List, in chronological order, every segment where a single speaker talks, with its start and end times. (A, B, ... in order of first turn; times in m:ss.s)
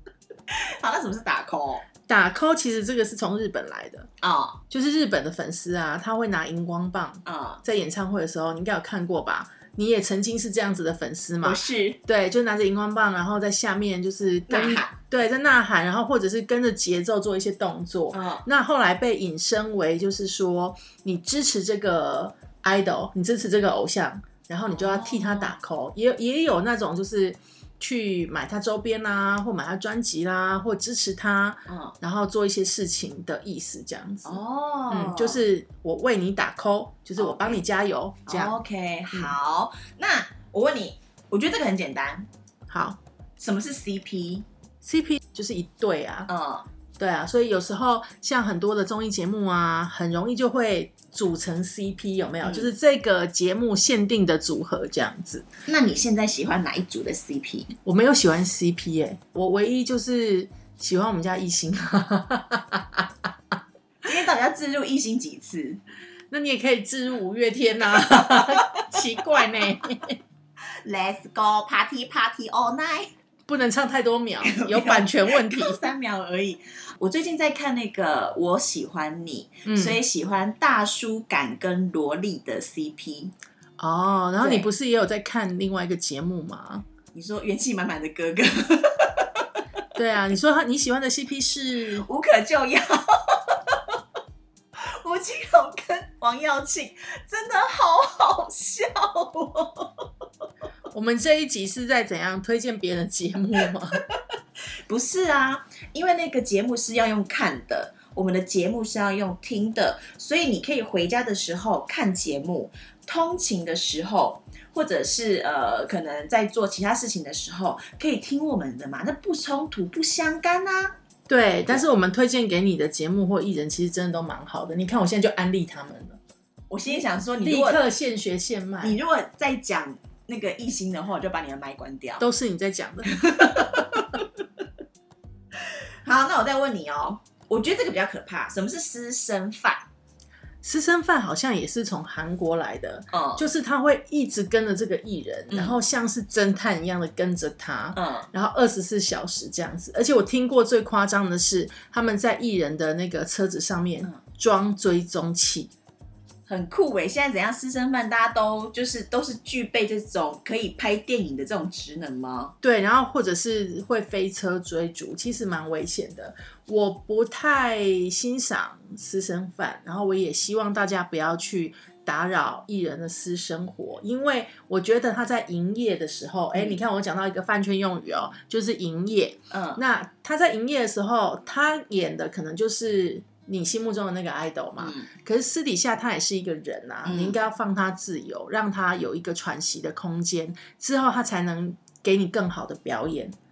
0:00.5-0:01.8 A
0:02.1-0:04.1 B
0:04.2-0:04.6 A
0:04.7-0:38.6 B
0:07.2-0:07.6 A
0:11.4-0:12.0 A
0:14.5-0:14.9 A
0:18.1-0:18.4 A
0:24.7-0:25.5 A
0:31.7-0:31.9 A
0:34.2-0:35.4 A
0:37.2-0:37.6 A
0:38.3-0:42.3 A
0:42.7-0:43.0 B
0:43.4-0:44.4 A
0:44.8-0:46.3 B
0:46.3-0:46.6 A
0:47.0-0:55.4 B
0:52.4-0:52.7 A
0:55.7-0:57.7 A
0:57.8-1:03.1 B
1:04.0-1:05.8 A
1:06.3-1:10.2 B
1:10.8-1:13.1 A
1:13.5-1:15.8 B
1:14.4-1:23.3 A
1:19.6-1:20.0 B
1:23.8-1:26.8 B
1:24.4-1:24.6 A
1:27.1-1:29.5 A
1:29.9-1:32.1 B
1:32.0-1:33.9 A
1:34.8-1:40.0 A
1:40.9-1:44.0 B
1:44.9-2:01.0 A
2:01.3-2:06.2 B
2:06.7-2:07.8 A
2:07.4-2:09.0 B
2:08.8-2:12.2 A
2:12.2-2:14.2 B
2:13.1-2:14.0 A
2:16.0-2:19.9 A
2:20.6-2:35.7 B
2:23.1-2:23.5 A
2:25.5-2:25.8 A
2:27.9-2:28.3 A
2:36.5-2:42.5 A
2:42.6-3:13.4 B
2:56.5-2:56.8 A
2:59.5-2:59.8 A
3:04.8-3:05.1 A
3:07.0-3:07.4 A